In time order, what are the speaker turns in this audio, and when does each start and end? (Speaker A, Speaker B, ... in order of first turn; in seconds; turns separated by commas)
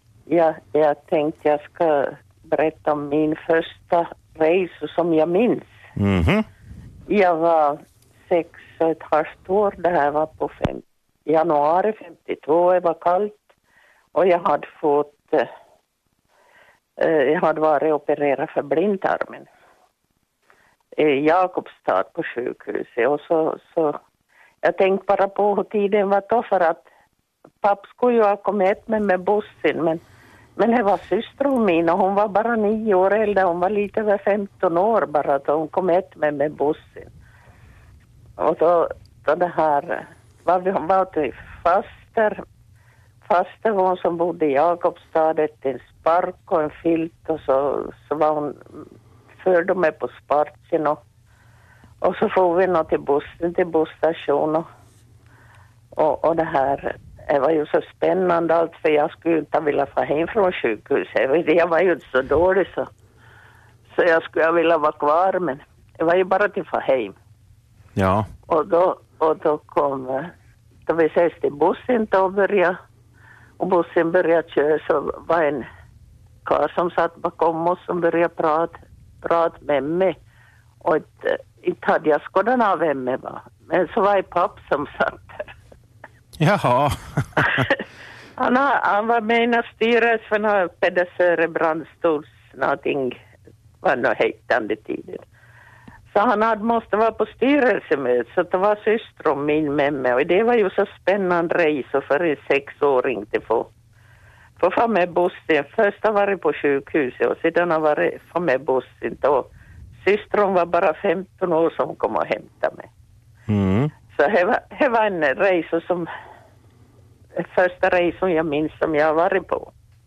Speaker A: 0.3-5.7, Speaker B: 6.0-6.5, Speaker A: 7.1-13.4, Speaker A: 14.1-15.5, Speaker A: 17.0-19.5, Speaker A: 21.0-24.0, Speaker A: 24.6-26.9, Speaker A: 27.6-30.0, Speaker A: 30.6-37.1, Speaker A: 38.4-42.4, Speaker A: 43.2-48.8, Speaker A: 49.4-51.0, Speaker A: 52.0-54.7, Speaker A: 56.0-62.9, Speaker A: 63.9-67.2, Speaker B: 68.0-68.3, Speaker A: 68.5-70.3, Speaker A: 70.9-72.8, Speaker A: 73.6-75.7, Speaker A: 76.5-80.2, Speaker A: 80.8-85.5, Speaker B: 86.4-87.6, Speaker A: 88.4-93.2, Speaker A: 93.8-95.2, Speaker A: 96.1-103.7, Speaker A: 104.6-109.5, Speaker A: 110.0-112.9, Speaker B: 113.5-113.9, Speaker A: 114.1-116.1, Speaker A: 117.4-119.7